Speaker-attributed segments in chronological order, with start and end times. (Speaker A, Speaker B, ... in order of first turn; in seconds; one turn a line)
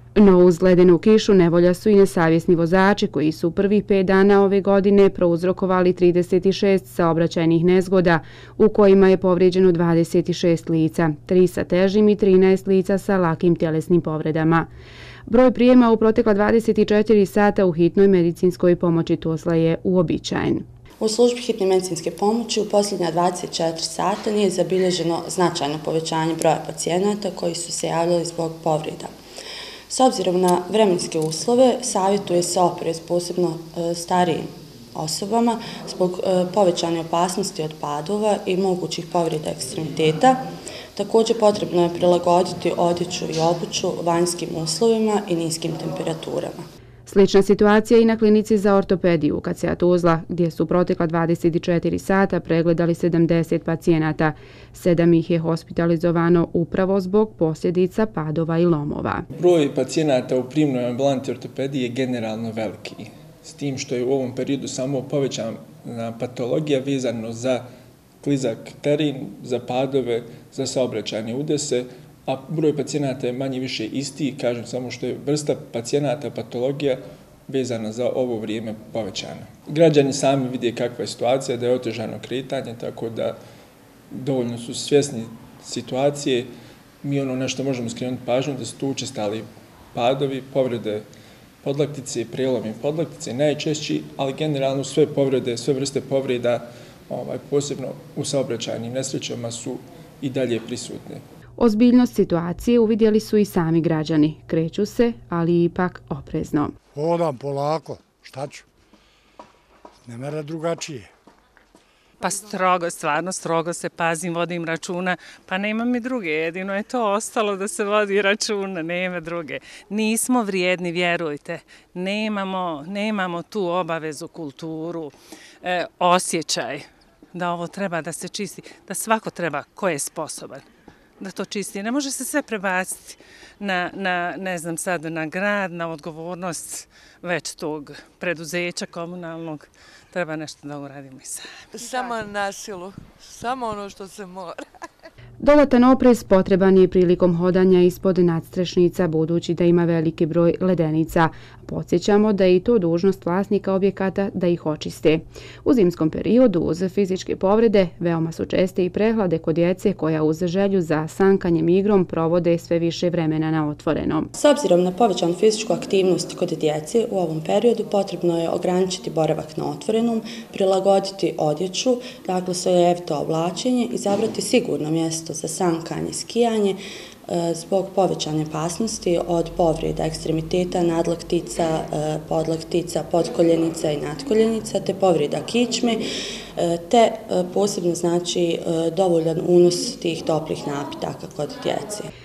Speaker A: 0.1-14.7
Speaker A: 15.3-20.6
Speaker B: 21.0-29.1
Speaker B: 29.9-40.4
Speaker B: 41.0-46.6
Speaker A: 47.1-59.2
Speaker C: 59.3-67.7
Speaker C: 68.2-83.4
Speaker C: 84.1-86.5
Speaker C: 87.0-91.0
Speaker C: 91.6-101.2
Speaker A: 101.6-106.7
Speaker D: 106.9-108.6
Speaker D: 110.0-111.1
Speaker E: 112.2-130.6
Speaker E: 131.2-141.5
Speaker F: 141.7-144.7
Speaker A: 145.4-164.3
Speaker B: 164.3-186.0
Speaker B: 186.6-192.1